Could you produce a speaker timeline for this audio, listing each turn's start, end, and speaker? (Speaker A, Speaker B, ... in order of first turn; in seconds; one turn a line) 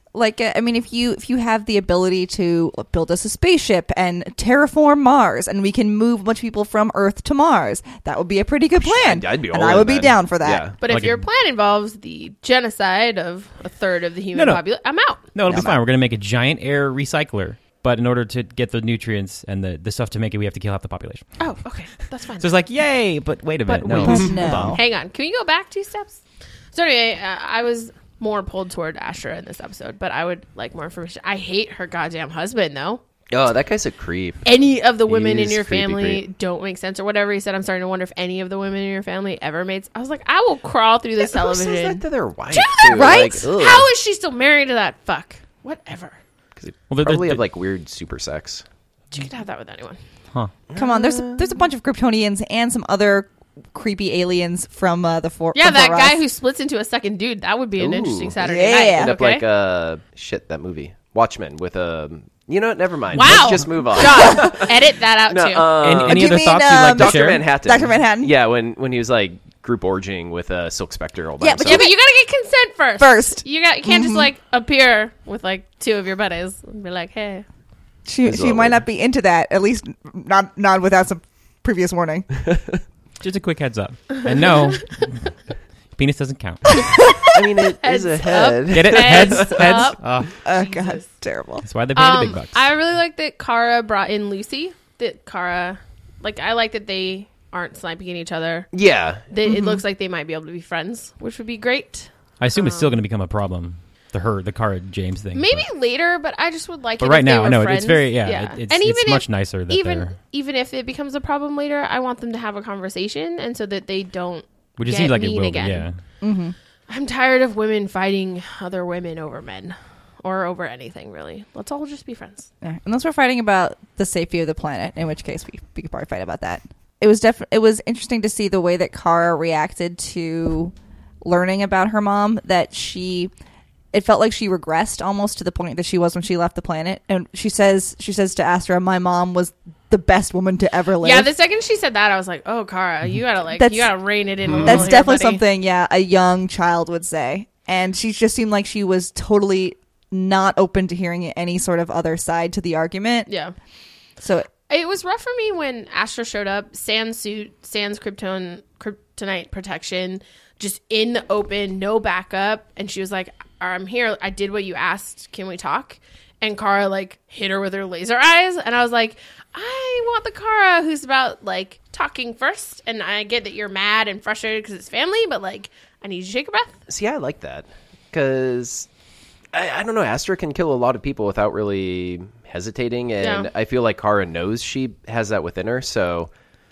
Speaker A: 0.1-10.7
Speaker B: 8.8-10.8
Speaker C: 10.8-15.3
Speaker D: 10.9-11.2
Speaker D: 14.3-14.7
Speaker D: 15.2-21.3
Speaker A: 15.5-15.8
Speaker C: 21.4-22.5
Speaker D: 22.4-24.8
Speaker C: 23.7-33.0
Speaker A: 23.9-24.8
Speaker B: 33.3-34.5
Speaker C: 34.5-46.2
Speaker B: 35.1-36.2
Speaker B: 41.2-43.9
Speaker A: 42.9-43.8
Speaker B: 46.6-48.6
Speaker D: 46.9-47.4
Speaker C: 49.1-50.0
Speaker B: 50.7-51.6
Speaker A: 50.8-56.2
Speaker C: 55.5-59.5
Speaker B: 57.8-58.4
Speaker A: 58.4-59.2
Speaker B: 59.0-64.8
Speaker D: 63.1-63.5
Speaker C: 63.1-65.7
Speaker B: 65.3-71.9
Speaker D: 65.8-67.5
Speaker A: 66.0-68.3
Speaker A: 71.4-72.0
Speaker C: 71.6-77.5
Speaker A: 73.0-74.3
Speaker A: 78.1-82.3
Speaker B: 78.3-78.8
Speaker D: 83.2-85.3
Speaker C: 84.4-84.8
Speaker D: 86.0-86.9
Speaker B: 87.3-89.8
Speaker C: 87.8-91.1
Speaker D: 88.7-90.3
Speaker A: 90.4-91.7
Speaker D: 91.6-92.7
Speaker C: 91.9-98.7
Speaker B: 98.7-99.3
Speaker C: 99.3-102.9
Speaker A: 99.4-99.8
Speaker D: 102.4-105.7
Speaker C: 105.3-115.9
Speaker D: 107.0-110.2
Speaker D: 114.8-116.0
Speaker A: 116.2-116.5
Speaker C: 116.9-122.5
Speaker A: 122.6-133.3
Speaker A: 133.9-141.3
Speaker C: 141.0-145.4
Speaker A: 143.6-143.9
Speaker B: 144.5-144.9
Speaker A: 144.6-153.3
Speaker C: 153.3-153.5
Speaker A: 154.2-154.5
Speaker C: 154.7-176.9
Speaker B: 176.9-178.9
Speaker B: 179.5-186.3
Speaker C: 183.2-183.5